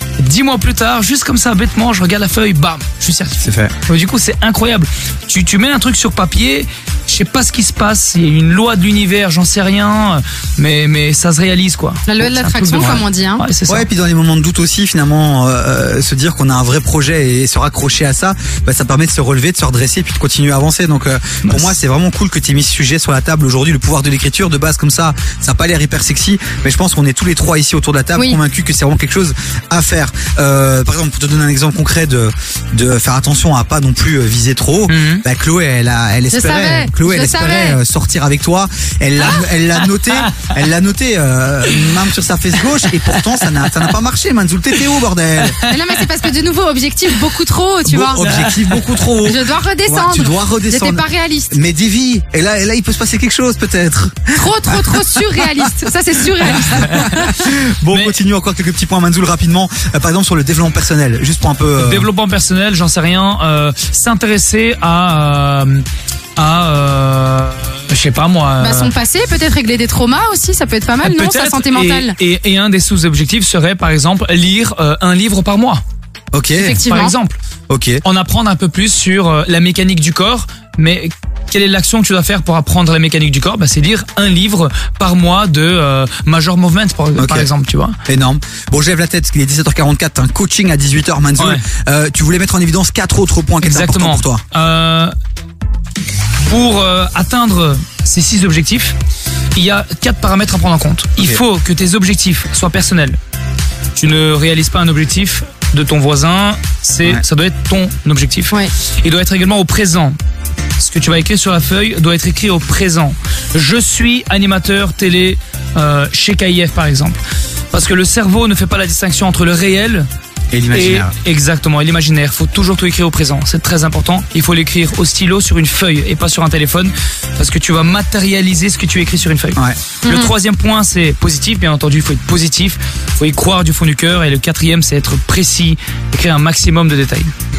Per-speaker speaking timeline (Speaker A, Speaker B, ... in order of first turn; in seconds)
Speaker A: 0.2-13.9, 21.4-21.7, 34.9-35.2, 42.8-43.9, 45.4-46.0, 48.2-49.0, 56.6-57.3, 57.9-58.1, 61.8-65.8, 66.4-68.9, 71.0-75.8, 76.8-77.4, 78.0-88.0, 93.6-95.1, 96.4-99.0, 99.5-103.2, 103.9-110.2, 110.8-117.2, 117.7-120.1, 120.7-137.3
Speaker B: 3.4-3.7, 13.7-45.6, 47.9-55.5, 56.5-62.1, 76.3-76.8, 77.7-78.0, 87.2-87.5, 88.1-94.4, 120.5-121.1
Speaker C: 12.1-13.4, 36.3-37.8, 45.6-48.2, 49.2-51.5, 54.3-57.5, 68.6-72.2, 76.6-77.1, 130.0-130.3